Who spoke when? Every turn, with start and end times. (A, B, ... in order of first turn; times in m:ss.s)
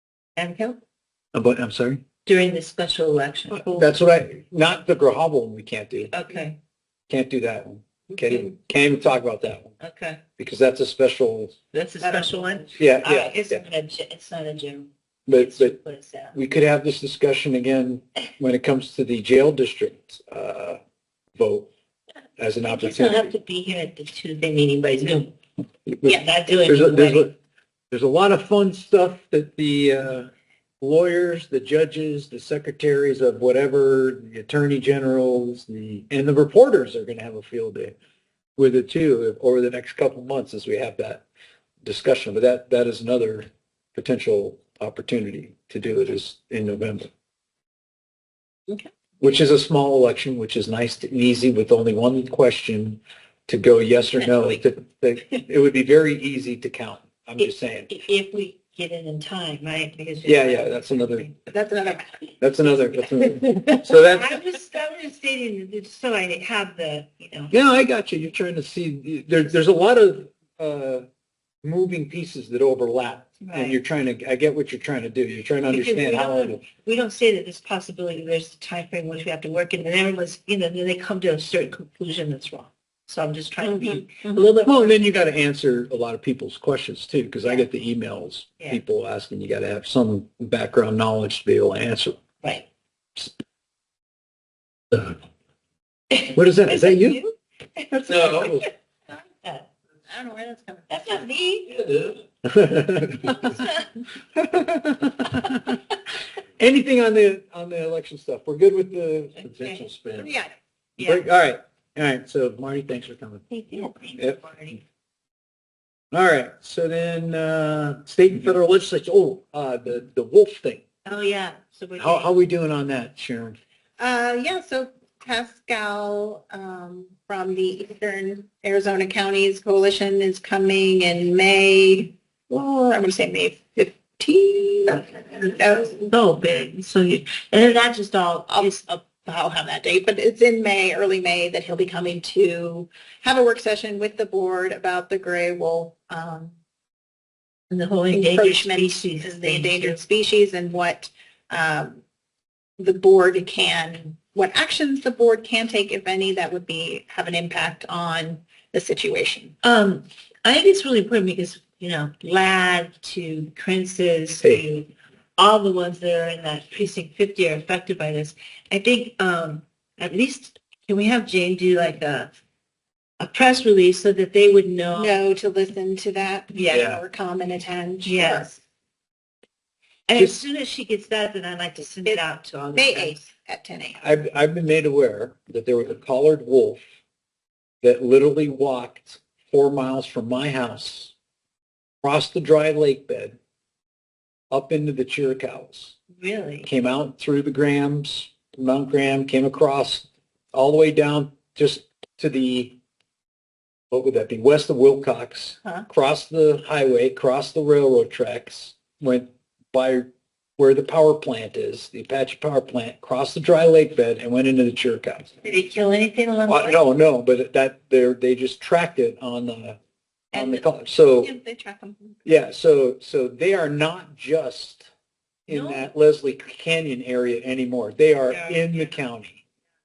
0:00.4-0:00.8 A
0:01.3-0:02.0 B
0:02.3-0:03.9 A
0:03.5-0:06.1 B
0:06.1-0:06.6 A
0:07.1-0:09.7 B
0:09.8-0:10.2 A
0:10.4-0:11.6 B
0:11.7-0:16.4 A
0:12.0-0:12.3 C
0:12.8-0:13.6 B
0:15.3-0:15.8 B
0:16.3-0:20.8 B
0:21.4-0:21.7 B
0:22.4-0:23.3 B
0:22.6-0:25.3 A
0:25.9-0:27.3 B
0:26.1-0:27.3 A
0:27.9-0:30.3 B
0:30.8-0:38.0 B
0:38.6-0:41.2 B
0:41.8-0:47.1 B
0:49.2-0:57.9 B
0:57.4-1:01.4 A
1:00.2-1:01.3 B
1:01.5-1:02.2 C
1:02.4-1:04.4 B
1:03.6-1:03.8 C
1:04.1-1:07.5 A
1:07.5-1:11.0 B
1:11.6-1:16.6 B
1:13.4-1:13.8 A
1:15.7-1:25.0 A
1:23.6-1:24.4 C
1:24.6-1:32.2 B
1:36.1-1:38.7 A
1:36.3-1:37.2 B
1:38.1-1:38.7 B
1:39.4-1:39.7 A
1:40.1-1:40.9 C
1:40.9-1:41.8 A
1:41.7-1:43.6 B
1:43.4-1:43.9 A
1:44.4-1:45.8 B
1:46.6-1:50.3 B
1:49.4-1:49.9 A
1:50.2-1:50.5 C
1:51.0-1:51.3 A
1:51.0-1:54.4 B
1:53.5-1:54.8 A
1:56.1-2:00.8 B
2:01.0-2:02.3 A
2:02.0-2:03.6 B
2:04.0-2:16.1 C
2:16.1-2:18.8 A
2:18.5-2:26.6 C
2:27.7-2:30.0 A
2:28.1-2:32.0 C
2:32.8-2:39.5 C
2:39.6-2:52.3 A
2:53.2-2:55.2 A
2:54.9-2:58.6 C
2:56.5-2:57.0 A
2:56.7-2:57.0 B
2:58.0-2:58.5 A
3:00.1-3:03.2 A
3:00.2-3:00.4 B
3:02.0-3:04.0 C
3:04.0-3:06.8 B
3:07.8-3:11.1 B
3:12.0-3:13.4 B
3:14.5-3:16.0 B
3:16.2-3:16.7 A
3:16.6-3:22.8 B
3:23.9-3:35.3 B
3:35.4-3:36.8 A
3:36.5-3:39.8 B
3:40.3-3:41.3 B
3:40.3-3:42.2 C
3:42.2-3:44.9 B
3:45.5-3:49.4 B
3:45.5-3:45.9 A
3:48.3-3:49.0 A